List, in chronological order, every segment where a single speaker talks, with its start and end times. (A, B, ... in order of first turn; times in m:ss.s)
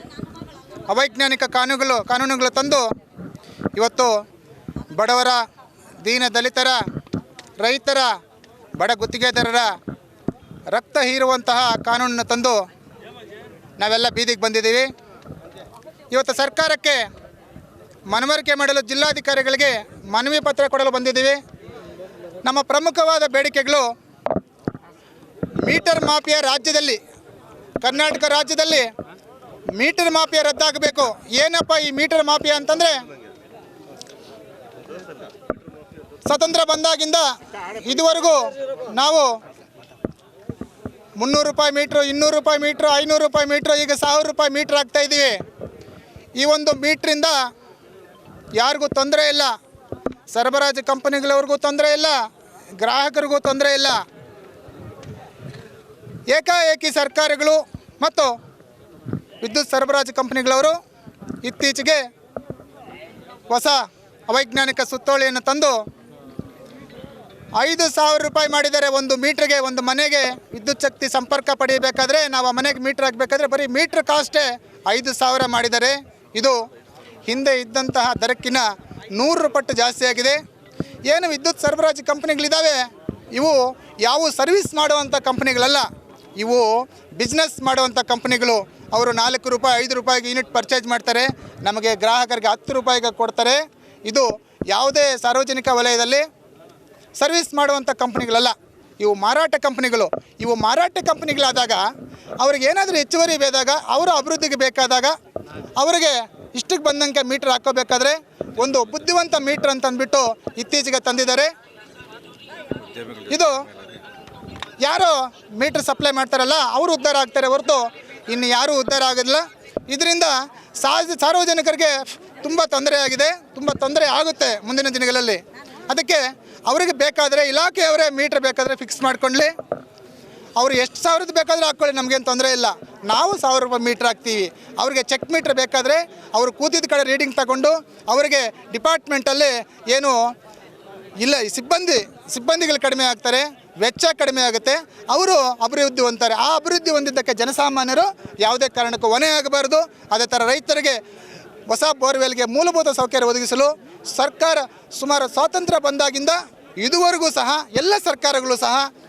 0:00.9-0:02.8 A
0:03.8-0:04.1 A
0:05.0-0:05.4 A
0:06.0-0:06.8 A
0:07.6-0:08.1 A
0:08.8-0:09.7 A
0:10.7-0:12.6 A
0:13.8-0:14.9 A
0:16.1-0:17.0 A
0:18.1-0:21.4 A
0:22.4-0:23.9 A
0:25.6-0:27.0 A
0:27.8-0:28.9 A
0:29.8-0:33.0 A
0:36.3-0:39.3 A
0:41.2-0:45.4 A
0:46.4-0:47.3 A
0:48.6-0:49.5 A
0:50.3-0:52.2 A
0:52.8-0:54.0 A
0:56.3-0:58.3 A
0:59.4-1:00.8 A
1:01.4-1:02.0 A
1:03.5-1:03.8 A
1:04.3-1:05.8 A
1:07.6-1:16.6 A
1:17.3-1:18.6 A
1:19.2-1:20.4 A
1:21.1-1:22.8 A
1:23.4-1:25.9 A
1:26.4-1:26.7 A
1:27.2-1:36.2 A
1:37.2-1:41.8 A
1:42.4-1:45.1 A
1:45.8-1:51.5 A
1:53.3-1:53.5 A
1:54.8-2:09.5 A
2:10.6-2:20.2 A
2:21.2-2:31.0 A
2:31.7-2:38.8 A